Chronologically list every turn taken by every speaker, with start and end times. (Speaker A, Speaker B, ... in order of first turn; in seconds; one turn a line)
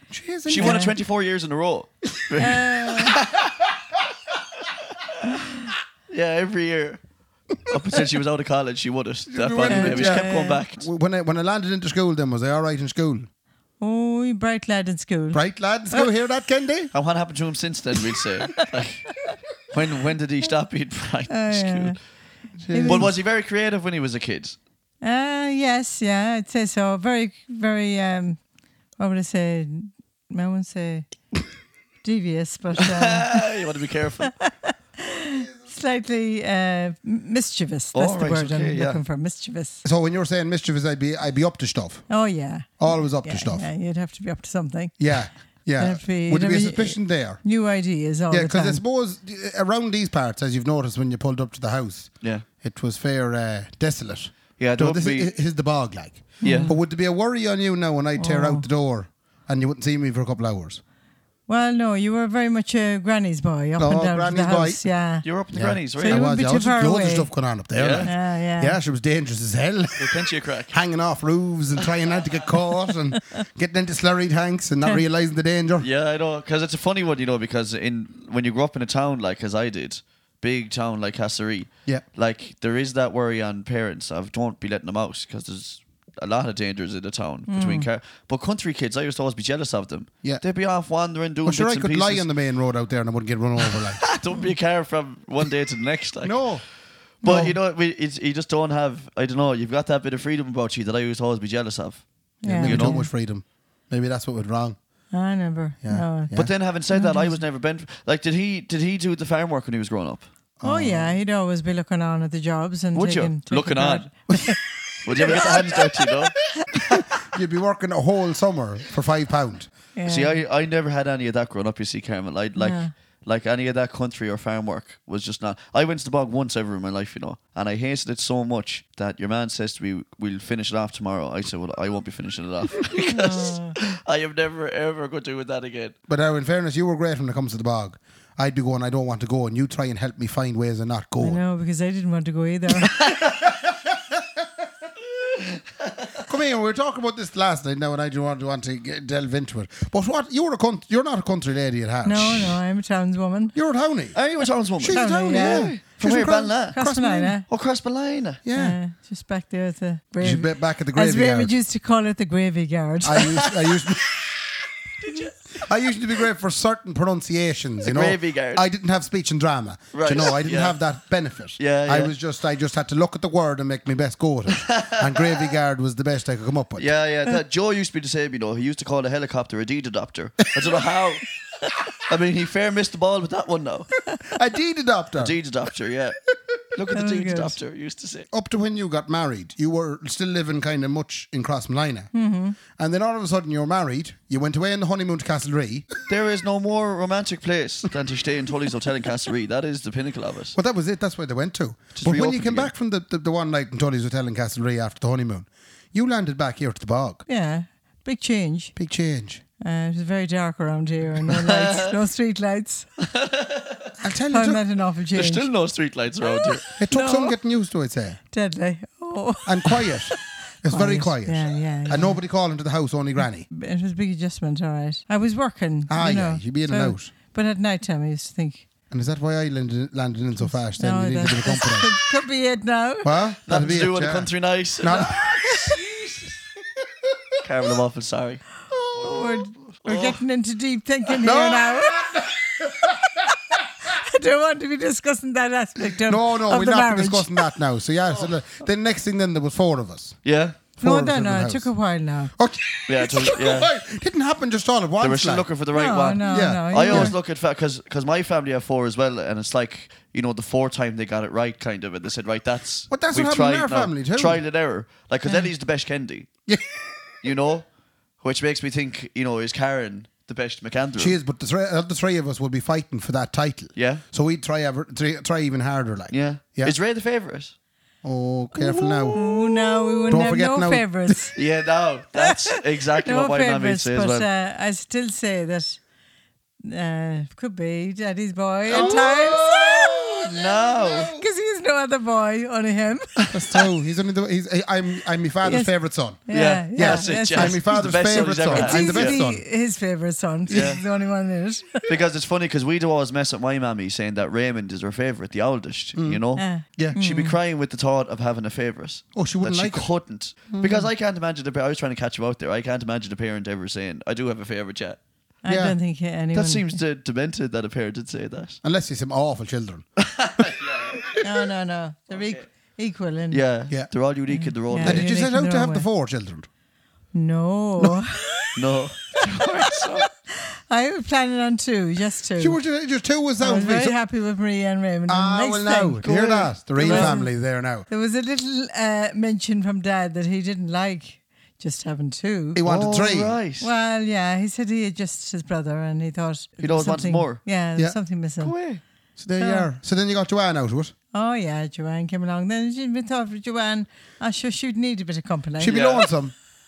Speaker A: 0.1-0.9
Speaker B: 0.5-3.6
Speaker C: 0.6-0.9
Speaker C: 2.4-3.2
Speaker B: 6.1-7.0
Speaker B: 7.6-10.8
Speaker A: 9.3-13.3
Speaker C: 9.7-10.6
Speaker C: 13.8-16.1
Speaker A: 15.3-16.9
Speaker B: 16.9-19.2
Speaker B: 19.7-22.0
Speaker C: 21.3-22.0
Speaker A: 22.6-23.1
Speaker C: 22.7-23.1
Speaker B: 22.9-24.6
Speaker C: 25.0-28.4
Speaker C: 29.0-31.1
Speaker C: 32.0-33.4
Speaker B: 32.8-34.3
Speaker C: 34.3-39.8
Speaker B: 37.9-39.0
Speaker A: 39.8-42.1
Speaker C: 42.1-45.0
Speaker A: 42.8-43.7
Speaker A: 45.0-47.4
Speaker C: 45.8-48.8
Speaker A: 48.3-60.8
Speaker B: 54.6-55.3
Speaker B: 56.4-56.7
Speaker C: 56.4-56.8
Speaker C: 58.2-58.7
Speaker C: 61.5-65.2
Speaker A: 63.8-64.8
Speaker B: 65.2-66.2
Speaker A: 65.5-75.9
Speaker C: 66.0-67.3
Speaker B: 67.8-68.1
Speaker C: 68.0-68.8
Speaker B: 70.0-70.8
Speaker B: 75.8-92.3
Speaker C: 87.5-87.9
Speaker A: 91.5-94.0
Speaker B: 93.7-96.6
Speaker A: 96.2-96.6
Speaker B: 97.2-102.0
Speaker A: 97.2-97.5
Speaker C: 102.4-103.1
Speaker A: 102.4-104.8
Speaker B: 102.6-103.0
Speaker C: 105.1-106.3
Speaker A: 105.8-106.5
Speaker B: 106.3-110.3
Speaker C: 106.9-107.4
Speaker A: 110.6-111.2
Speaker C: 110.6-114.6
Speaker B: 113.0-114.1
Speaker B: 115.0-116.4
Speaker C: 115.2-115.5
Speaker A: 115.2-115.6
Speaker A: 116.9-119.7
Speaker C: 120.0-120.4
Speaker B: 120.1-136.0
Speaker C: 122.6-122.9
Speaker C: 133.1-133.8
Speaker A: 136.1-141.4
Speaker C: 141.2-142.9
Speaker B: 143.0-143.4
Speaker A: 146.2-152.6
Speaker C: 152.0-153.5
Speaker A: 153.6-154.2
Speaker B: 154.2-156.8
Speaker A: 154.8-157.4
Speaker C: 154.9-155.8
Speaker C: 156.7-157.5
Speaker B: 157.5-158.4
Speaker A: 158.4-158.8
Speaker C: 158.5-163.4
Speaker A: 160.2-161.5
Speaker A: 163.0-164.1
Speaker B: 163.5-163.9
Speaker B: 165.0-165.3
Speaker A: 165.6-176.9
Speaker B: 167.8-168.7
Speaker B: 169.9-170.8
Speaker B: 171.6-172.1
Speaker B: 174.5-175.4
Speaker B: 176.8-181.3
Speaker B: 182.0-183.9
Speaker A: 184.3-185.4
Speaker B: 185.2-186.2
Speaker B: 186.7-188.3
Speaker C: 186.9-187.6
Speaker A: 188.3-192.1
Speaker C: 192.1-192.6
Speaker A: 192.7-195.9
Speaker B: 196.1-200.6
Speaker A: 200.5-207.2
Speaker B: 202.0-202.7
Speaker C: 207.3-208.7
Speaker A: 208.8-209.4
Speaker C: 209.6-212.9
Speaker B: 211.3-212.0
Speaker B: 213.0-213.9
Speaker A: 214.0-214.6
Speaker C: 214.3-215.5
Speaker B: 215.2-216.7
Speaker C: 216.4-217.3
Speaker A: 216.8-218.2
Speaker C: 218.3-222.2
Speaker A: 219.5-223.5
Speaker C: 223.5-228.7
Speaker A: 225.9-227.1
Speaker A: 228.9-232.0
Speaker C: 230.4-233.2
Speaker A: 233.0-235.8
Speaker B: 233.5-235.8
Speaker B: 237.4-238.5
Speaker C: 239.0-242.1
Speaker B: 239.0-240.2
Speaker A: 241.2-243.0
Speaker C: 243.8-247.5
Speaker A: 246.1-250.2
Speaker B: 250.2-250.6
Speaker A: 250.8-251.7
Speaker C: 250.8-252.3
Speaker A: 252.4-255.5
Speaker B: 252.9-253.7
Speaker B: 255.0-266.3
Speaker C: 255.7-257.1
Speaker A: 256.2-257.1
Speaker A: 262.9-264.4
Speaker A: 266.5-266.7
Speaker B: 267.2-267.7
Speaker B: 268.2-271.2
Speaker A: 271.0-276.8
Speaker B: 273.8-274.0
Speaker B: 276.1-277.5
Speaker A: 278.0-279.2
Speaker B: 278.6-279.4
Speaker C: 279.1-281.4
Speaker A: 280.1-281.2
Speaker B: 281.4-284.3
Speaker C: 282.2-285.8
Speaker C: 286.6-289.5
Speaker B: 288.7-291.1
Speaker A: 288.7-291.2
Speaker C: 291.1-293.1
Speaker A: 293.3-296.2
Speaker C: 295.4-295.7
Speaker C: 296.2-301.8
Speaker B: 296.3-299.2
Speaker A: 296.8-299.4
Speaker A: 300.5-300.8
Speaker B: 300.5-300.8
Speaker B: 301.9-315.0
Speaker A: 306.0-306.2
Speaker C: 306.4-307.4
Speaker A: 309.2-309.9
Speaker A: 310.5-310.9
Speaker C: 315.4-316.8
Speaker A: 315.5-315.8
Speaker B: 316.3-318.6
Speaker A: 318.6-319.9
Speaker B: 320.0-321.2
Speaker C: 321.2-323.4
Speaker B: 322.1-322.4
Speaker B: 323.3-325.1
Speaker C: 324.3-325.9
Speaker A: 324.8-326.5
Speaker C: 327.1-328.5
Speaker B: 328.6-330.1
Speaker C: 330.3-332.6
Speaker A: 332.4-334.0
Speaker C: 333.4-336.0
Speaker A: 335.1-337.9
Speaker B: 336.0-337.2
Speaker C: 336.8-337.3
Speaker C: 337.9-342.6
Speaker A: 342.6-343.4
Speaker B: 342.6-343.7
Speaker C: 343.6-348.5
Speaker B: 346.6-347.4
Speaker B: 348.4-348.8
Speaker A: 349.2-350.9
Speaker C: 349.4-349.7
Speaker C: 351.1-355.8
Speaker A: 355.6-356.3
Speaker B: 355.7-356.1